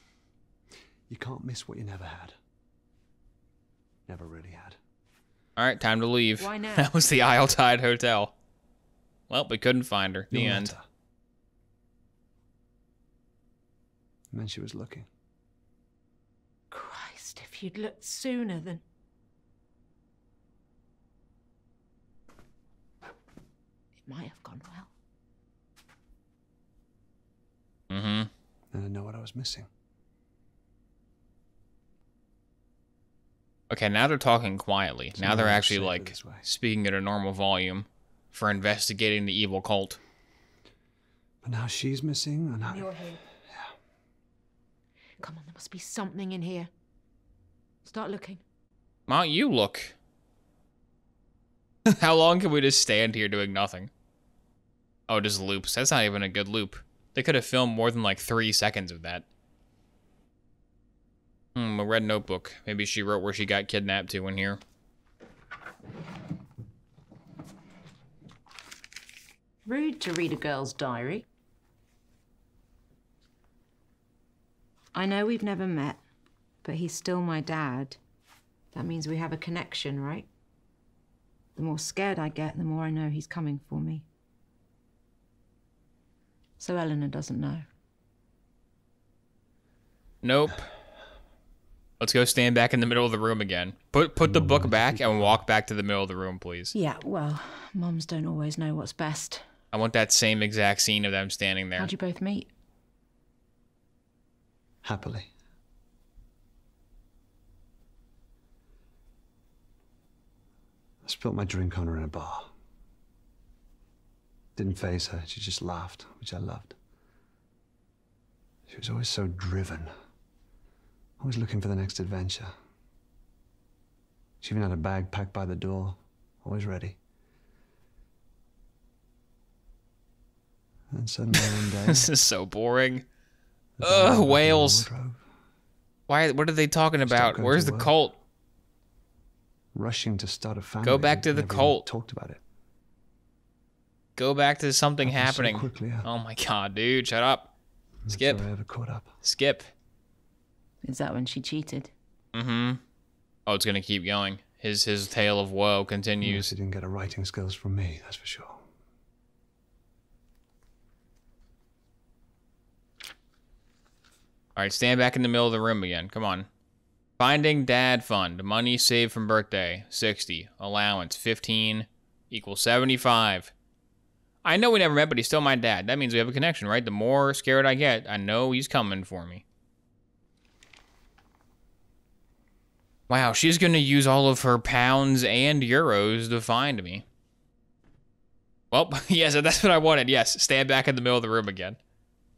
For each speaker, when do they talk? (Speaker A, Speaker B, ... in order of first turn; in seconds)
Speaker A: 1.1-2.4, 4.1-4.8, 10.3-10.9, 14.3-15.1, 28.7-29.7, 35.1-36.5, 41.4-43.7, 94.2-95.5, 104.8-105.3, 111.0-112.5, 114.6-116.8, 118.7-119.9, 121.2-122.5, 124.4-127.0, 130.9-132.1, 133.8-135.2, 137.0-138.0, 139.7-142.4, 145.0-146.1, 148.1-149.1, 156.2-158.7
Speaker B: 5.6-8.3, 9.3-10.7, 27.9-28.3, 33.7-40.0, 49.1-50.0, 51.9-53.9, 55.1-59.2, 61.5-64.6, 90.2-90.7, 92.0-96.7, 99.7-101.9, 131.9-133.1, 133.8-134.9, 136.1-138.2, 140.8-141.9, 144.2-147.5, 148.1-148.5, 149.2-149.7, 152.3-152.8, 153.5-156.5, 164.6-166.5, 167.2-173.5, 174.4-179.4, 183.1-187.0, 188.7-191.8
Speaker C: 6.4-6.9, 16.7-18.8, 24.0-24.9, 42.7-43.2, 45.2-46.7, 47.9-48.4, 69.7-71.3, 74.9-76.0, 76.6-78.0, 78.7-80.3, 81.6-84.0, 86.6-87.6, 96.7-99.4, 101.8-102.5, 150.8-151.9